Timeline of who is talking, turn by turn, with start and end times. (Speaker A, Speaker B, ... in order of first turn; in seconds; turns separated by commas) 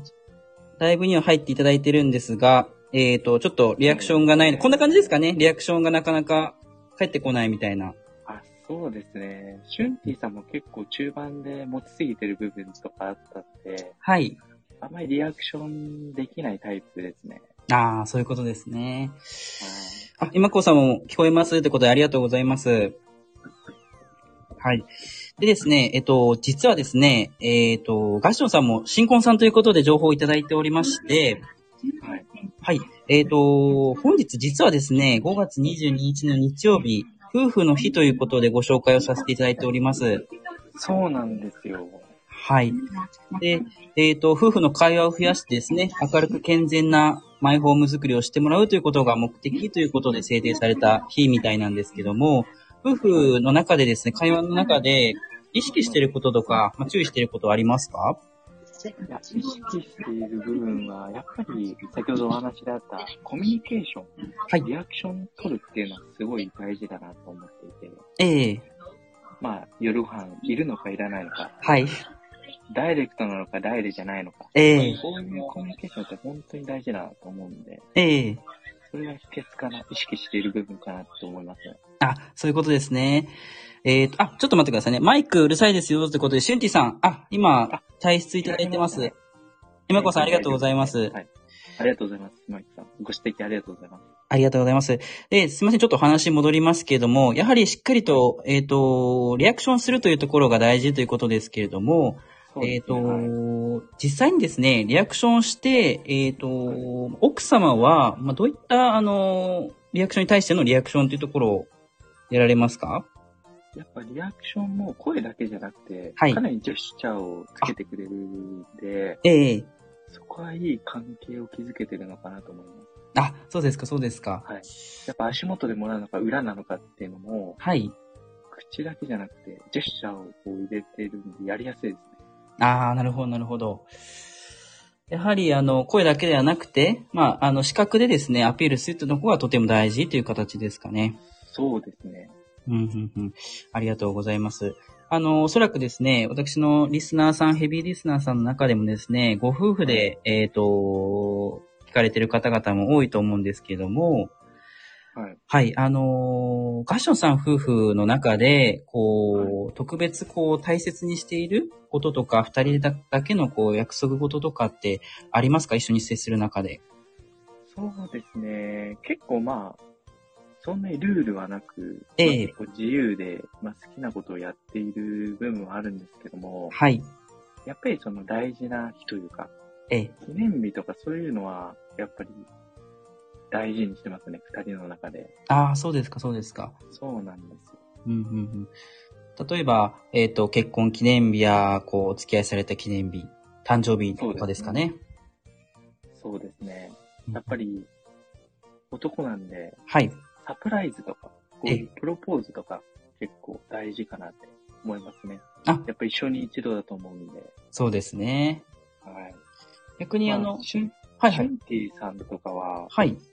Speaker A: 0.8-8.0, Speaker B: 3.9-5.2, Speaker B: 8.3-14.0, Speaker A: 14.0-14.4, Speaker B: 14.8-17.4, Speaker A: 17.7-19.2, Speaker B: 19.6-20.1, Speaker A: 20.2-23.0, Speaker A: 24.6-31.4, Speaker B: 32.0-32.3, Speaker A: 32.6-40.2, Speaker B: 40.8-42.1, Speaker A: 42.3-42.8, Speaker A: 43.4-58.2, Speaker B: 55.8-56.0, Speaker B: 59.1-68.0, Speaker A: 68.2-68.7, Speaker B: 69.4-71.6, Speaker A: 71.6-71.9, Speaker B: 72.7-77.9, Speaker A: 74.5-75.0, Speaker A: 78.0-78.4, Speaker B: 78.9-81.8, Speaker A: 82.0-83.3, Speaker A: 83.8-89.1, Speaker B: 88.4-89.2, Speaker A: 89.9-91.2, Speaker B: 89.9-94.1, Speaker A: 94.3-111.7, Speaker B: 102.5-103.3, Speaker A: 112.3-113.1, Speaker B: 113.8-119.2, Speaker A: 116.2-116.4, Speaker A: 119.2-119.7, Speaker B: 120.1-122.9, Speaker A: 123.2-124.5, Speaker B: 124.4-127.6, Speaker A: 127.6-128.0, Speaker B: 128.5-132.2, Speaker A: 132.6-133.9, Speaker A: 135.1-141.2, Speaker B: 141.4-142.3, Speaker A: 142.7-154.3, Speaker B: 149.8-150.1, Speaker A: 155.5-166.8, Speaker B: 159.3-159.6, Speaker B: 167.7-169.8, Speaker B: 170.6-176.8, Speaker A: 172.2-172.5, Speaker A: 176.7-177.1, Speaker B: 177.7-179.5, Speaker B: 180.2-182.5, Speaker B: 183.5-185.3, Speaker A: 185.5-186.8, Speaker B: 186.9-187.8, Speaker A: 188.1-188.7, Speaker A: 189.4-195.0, Speaker B: 194.2-194.8, Speaker B: 196.1-197.9, Speaker B: 198.9-199.8, Speaker A: 199.9-200.2, Speaker B: 200.4-207.5, Speaker A: 207.7-208.7, Speaker B: 209.1-209.4, Speaker A: 210.0-210.7, Speaker B: 210.2-212.9, Speaker A: 211.2-211.5, Speaker A: 212.9-213.2